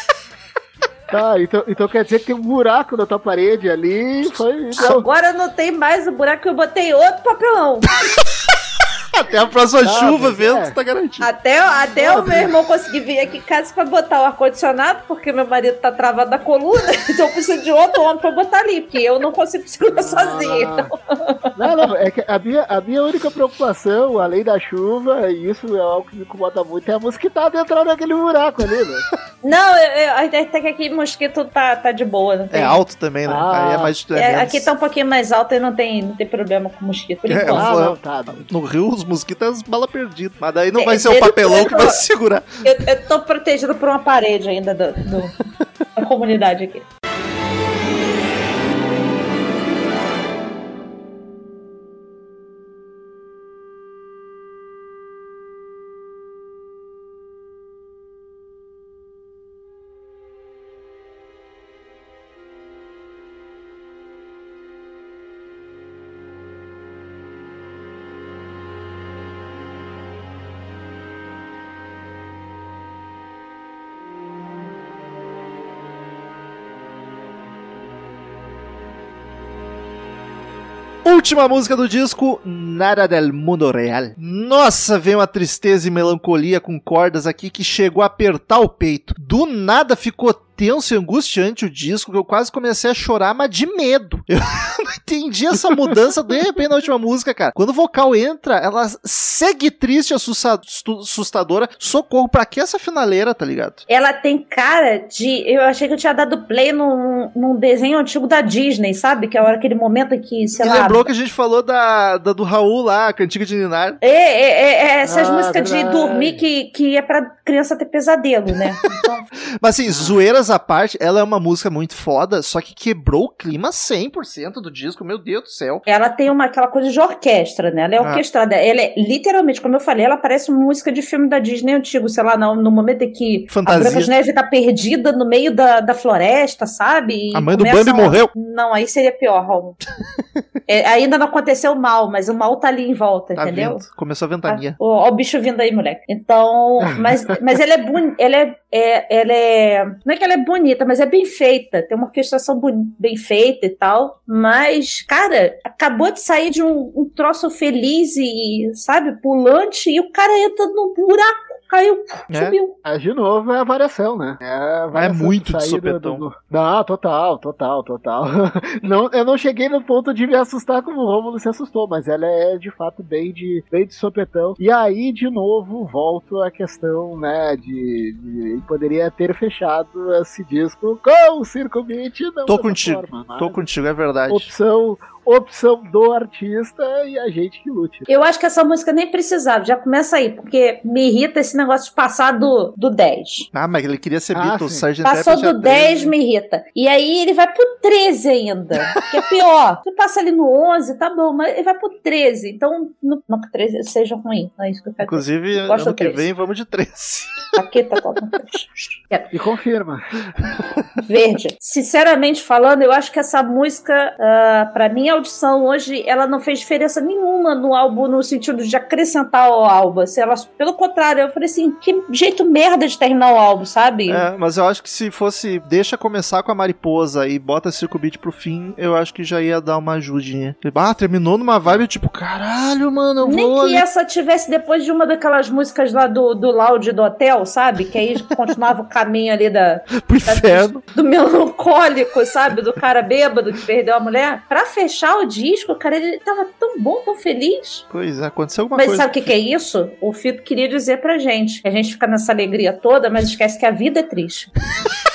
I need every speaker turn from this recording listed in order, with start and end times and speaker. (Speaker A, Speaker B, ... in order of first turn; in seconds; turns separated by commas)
Speaker A: 1.1-5.0, Speaker B: 4.8-7.9, Speaker C: 9.1-11.3, Speaker A: 9.8-10.7, Speaker B: 11.2-21.5, Speaker A: 11.9-12.5, Speaker A: 19.9-20.9, Speaker A: 21.6-29.1, Speaker B: 29.4-32.8, Speaker C: 32.5-34.7, Speaker A: 33.3-33.9, Speaker B: 34.1-37.7, Speaker C: 37.3-42.7, Speaker A: 37.5-38.5, Speaker B: 40.8-42.0, Speaker B: 42.6-45.4, Speaker B: 46.0-46.8, Speaker C: 81.0-103.8, Speaker B: 103.9-111.0, Speaker C: 110.5-114.0, Speaker B: 114.0-119.3, Speaker A: 115.0-116.4, Speaker C: 119.6-125.8, Speaker B: 125.9-139.8, Speaker C: 128.0-128.2, Speaker C: 133.5-134.1, Speaker C: 137.3-138.3, Speaker B: 140.7-143.8, Speaker C: 143.3-144.8, Speaker B: 144.5-162.8, Speaker C: 162.3-162.6, Speaker A: 162.8-183.6, Speaker C: 164.9-166.3, Speaker C: 182.5-184.5, Speaker A: 184.3-188.1, Speaker B: 188.1-193.5, Speaker C: 193.5-196.1, Speaker A: 194.3-194.8, Speaker B: 195.0-206.3, Speaker C: 205.0-207.5, Speaker B: 207.6-209.3, Speaker A: 209.3-210.0, Speaker B: 211.0-224.2, Speaker C: 224.1-233.8, Speaker B: 233.2-247.8, Speaker C: 239.9-240.8, Speaker C: 247.9-249.2, Speaker B: 248.7-254.5